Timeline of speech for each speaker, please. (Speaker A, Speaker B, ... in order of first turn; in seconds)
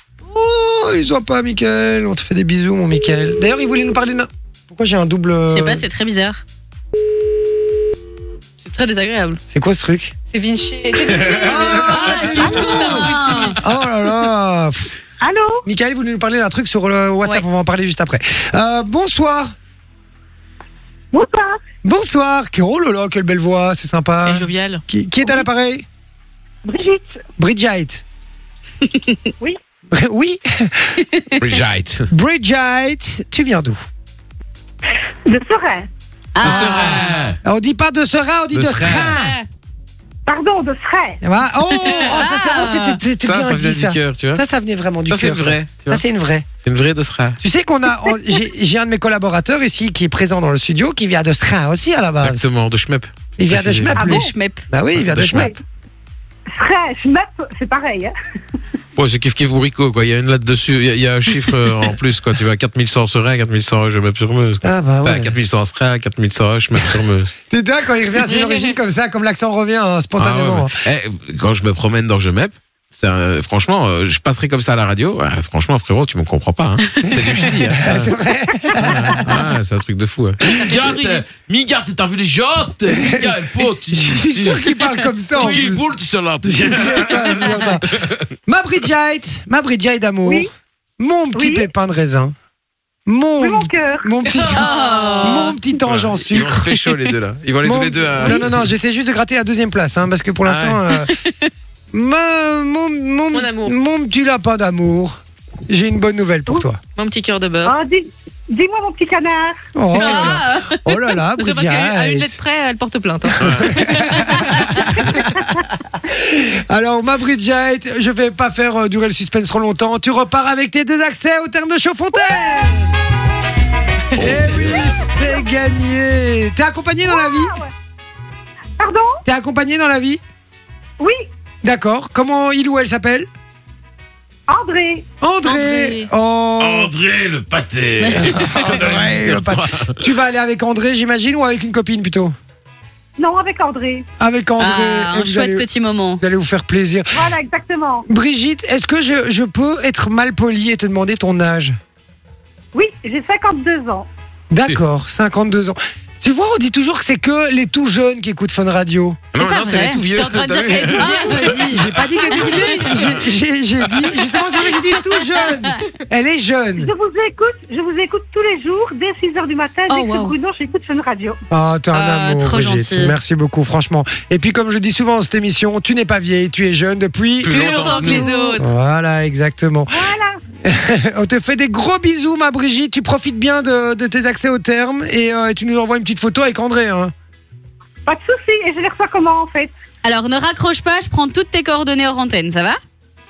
Speaker A: 0.2-5.8, 9.5-10.1, 11.2-14.9, 15.7-19.5, 21.8-25.9, 27.4-28.0, 29.9-31.0, 32.1-33.9, 36.4-39.4, 41.2-46.5, 47.4-52.5, 53.4-55.6, 64.6-65.4, 67.5-70.8, 77.0-79.4, 82.9-85.9, 86.5-87.9, 88.5-90.5, 91.0-92.3, 93.1-94.7, 95.2-96.8, 97.6-101.1, 101.9-105.2, 105.7-106.8, 109.8-112.4, 113.3-122.9, 124.2-127.6, 129.3-130.2, 131.6-133.3, 135.2-136.9, 138.1-142.3, 144.2-145.7, 146.2-147.3, 148.1-151.8, 154.5-159.2, 161.7-166.9, 171.5-177.7, 178.6-180.0, 180.6-187.1
Speaker B: 5.5-6.4, 11.7-13.6, 28.9-29.2, 36.4-37.1, 41.8-43.0, 54.0-54.6, 94.5-95.6, 109.9-110.8, 138.0-138.3, 144.6-146.2, 159.3-160.2, 160.8-162.9, 165.3-165.7, 171.9-173.2, 177.8-178.7, 190.0-192.8
Speaker C: 8.6-9.4, 10.3-13.6, 24.3-24.8, 38.9-39.4, 80.5-81.3, 94.3-95.5, 103.3-103.8, 107.0-107.8, 110.0-110.4, 111.4-114.8, 135.4-136.1, 159.8-161.7, 162.4-162.9, 169.9-170.3, 177.5-178.6
Speaker D: 11.1-12.4, 31.4-32.1, 36.4-37.4, 38.5-39.2, 43.2-44.4, 45.1-46.0, 46.6-47.4, 52.2-54.1, 55.0-55.5, 59.0-67.4, 70.2-78.1, 78.7-88.3, 95.8-98.7, 100.4-100.8, 113.4-114.5, 124.1-125.0, 136.6-140.1, 159.3-163.2, 163.9-164.1, 177.4-178.3
Speaker E: 12.4-13.0, 15.2-15.7, 21.1-21.6, 26.6-27.2, 35.3-35.9, 40.3-41.2, 54.0-54.3, 55.3-55.5, 56.5-58.1, 90.2-90.5, 91.3-91.7, 93.4-94.5, 107.7-109.6, 124.5-125.5, 127.0-127.7, 128.8-129.2, 131.0-131.3, 134.5-135.1, 143.2-144.1, 147.1-148.1, 152.7-154.1, 160.8-163.0, 166.8-171.4, 179.9-180.4, 188.1-189.7